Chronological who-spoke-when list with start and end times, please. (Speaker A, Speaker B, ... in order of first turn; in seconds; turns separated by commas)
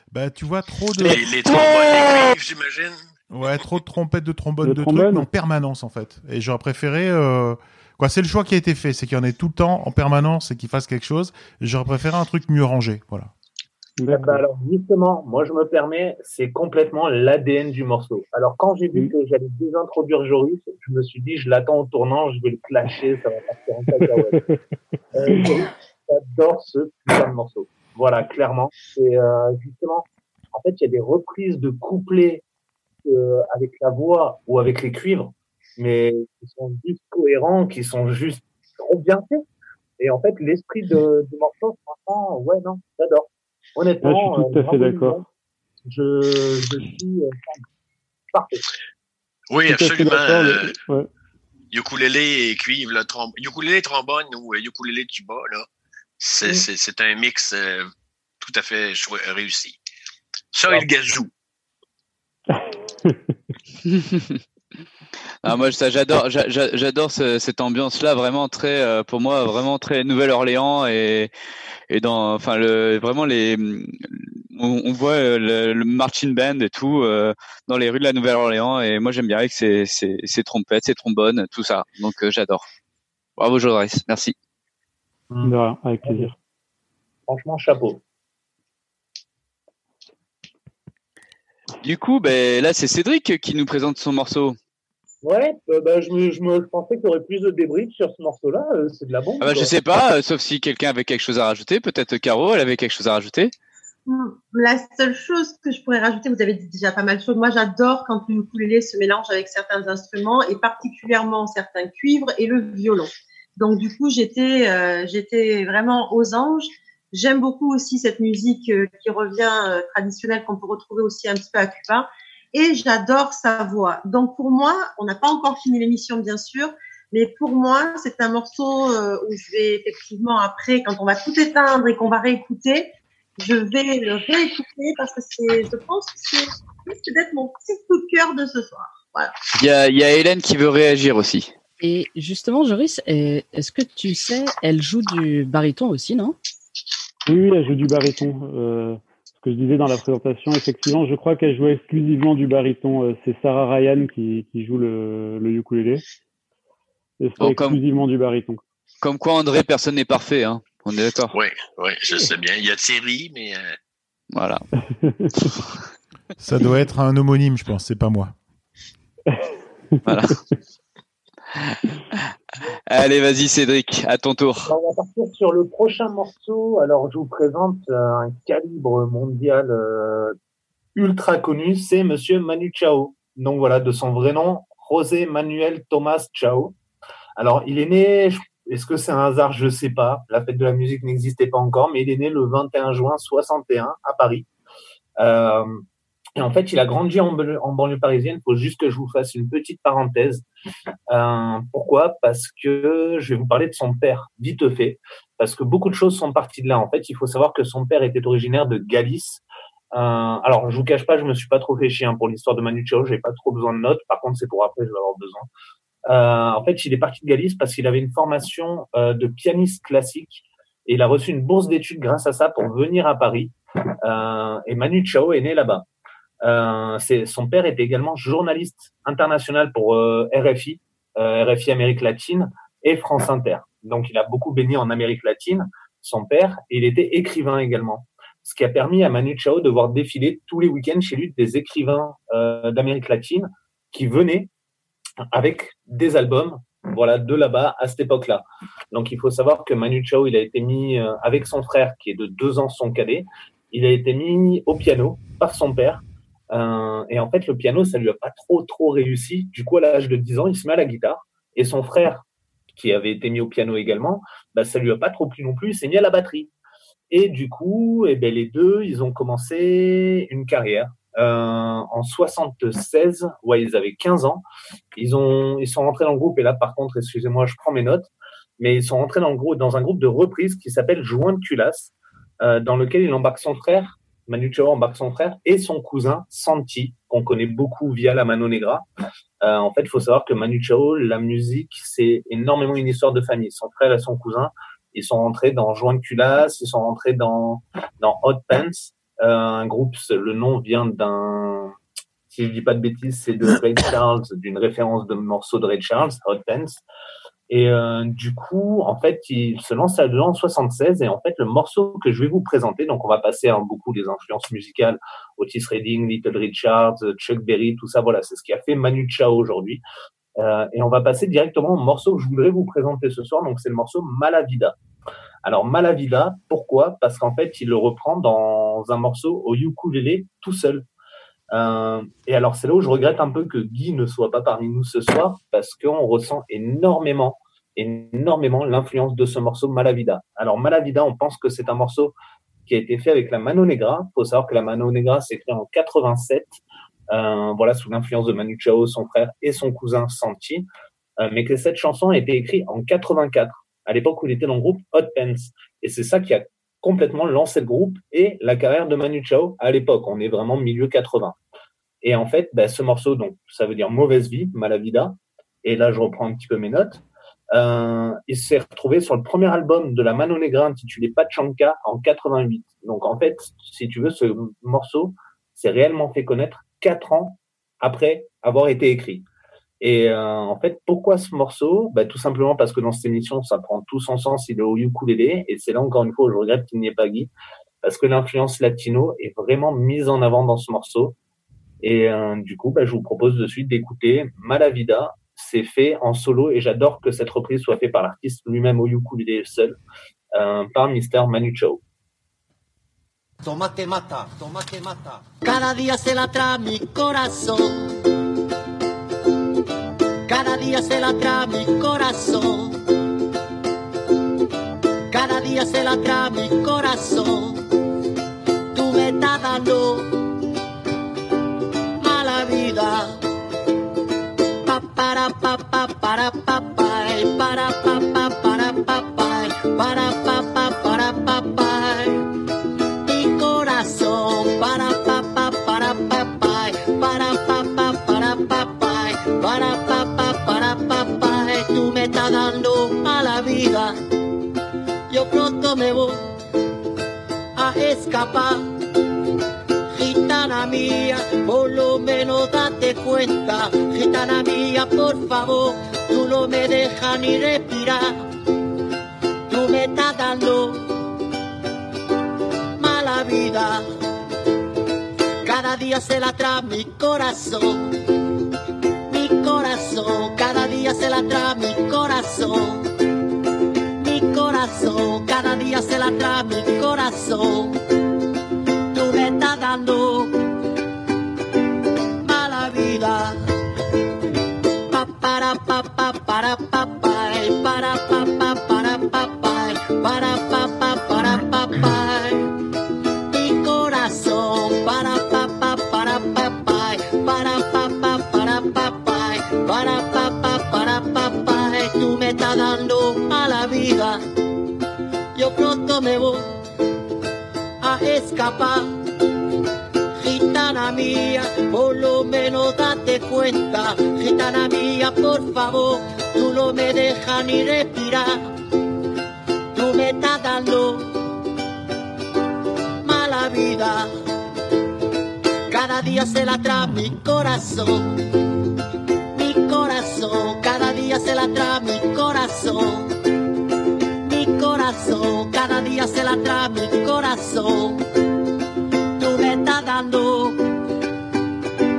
Speaker A: 0.1-1.3, Speaker B: 1.0-3.0, Speaker A: 3.3-13.3, Speaker C: 4.6-5.3, Speaker C: 14.0-14.4, Speaker D: 14.1-24.4, Speaker D: 25.1-32.4, Speaker D: 33.0-39.4, Speaker D: 40.0-45.2, Speaker C: 44.0-45.2, Speaker D: 45.9-47.6, Speaker D: 48.3-48.6, Speaker B: 49.5-50.7, Speaker C: 49.7-51.1, Speaker B: 51.7-55.7, Speaker B: 56.2-57.9, Speaker B: 58.4-59.8, Speaker B: 60.5-61.3, Speaker C: 62.5-63.4, Speaker E: 63.9-64.4, Speaker E: 65.4-71.3, Speaker E: 71.9-82.7, Speaker E: 83.4-84.3, Speaker C: 85.4-86.3, Speaker D: 86.0-86.3, Speaker D: 87.3-88.0, Speaker E: 91.8-94.6, Speaker D: 95.2-99.7, Speaker E: 99.4-103.5, Speaker F: 104.1-139.3, Speaker E: 139.6-141.5, Speaker G: 141.8-146.4, Speaker C: 147.3-156.0, Speaker C: 157.2-158.6, Speaker E: 157.4-157.8, Speaker E: 159.0-161.3, Speaker B: 161.3-163.8, Speaker E: 164.3-164.6, Speaker C: 165.0-165.5, Speaker A: 166.4-168.3, Speaker E: 170.1-170.4, Speaker E: 172.9-174.7, Speaker D: 174.7-180.3, Speaker D: 180.9-186.8, Speaker D: 187.4-194.5, Speaker D: 195.2-195.8, Speaker D: 196.4-200.4, Speaker D: 201.1-209.4, Speaker D: 209.9-215.4, Speaker D: 216.1-225.8, Speaker D: 226.4-244.5, Speaker D: 245.3-266.5, Speaker D: 267.1-274.4, Speaker D: 274.9-288.8, Speaker D: 289.4-301.7, Speaker D: 302.3-306.8, Speaker D: 307.5-319.8, Speaker D: 320.4-324.8, Speaker D: 325.4-330.9, Speaker D: 331.5-342.1, Speaker D: 342.7-346.6, Speaker D: 347.1-350.6, Speaker D: 351.2-361.4, Speaker D: 362.0-379.2, Speaker D: 379.8-387.3, Speaker D: 387.8-391.2, Speaker D: 391.8-399.8, Speaker D: 400.4-401.8, Speaker H: 405.4-407.9, Speaker H: 410.3-412.8, Speaker H: 415.1-417.6, Speaker H: 418.7-420.1, Speaker H: 422.0-423.2, Speaker H: 424.6-432.2, Speaker H: 433.1-444.0, Speaker H: 445.1-446.3, Speaker H: 447.6-448.7, Speaker H: 449.9-458.2, Speaker H: 459.5-460.9, Speaker H: 462.8-463.9, Speaker H: 465.4-467.9, Speaker H: 469.1-472.9, Speaker H: 474.0-477.8, Speaker H: 478.9-480.4, Speaker H: 482.2-483.4, Speaker H: 484.9-492.4, Speaker H: 493.3-504.2, Speaker H: 505.4-506.5, Speaker H: 507.8-508.9, Speaker H: 510.2-518.4, Speaker H: 519.7-521.1, Speaker H: 523.0-524.1, Speaker H: 525.7-528.2, Speaker H: 529.3-533.1, Speaker H: 534.2-538.0, Speaker H: 539.2-540.6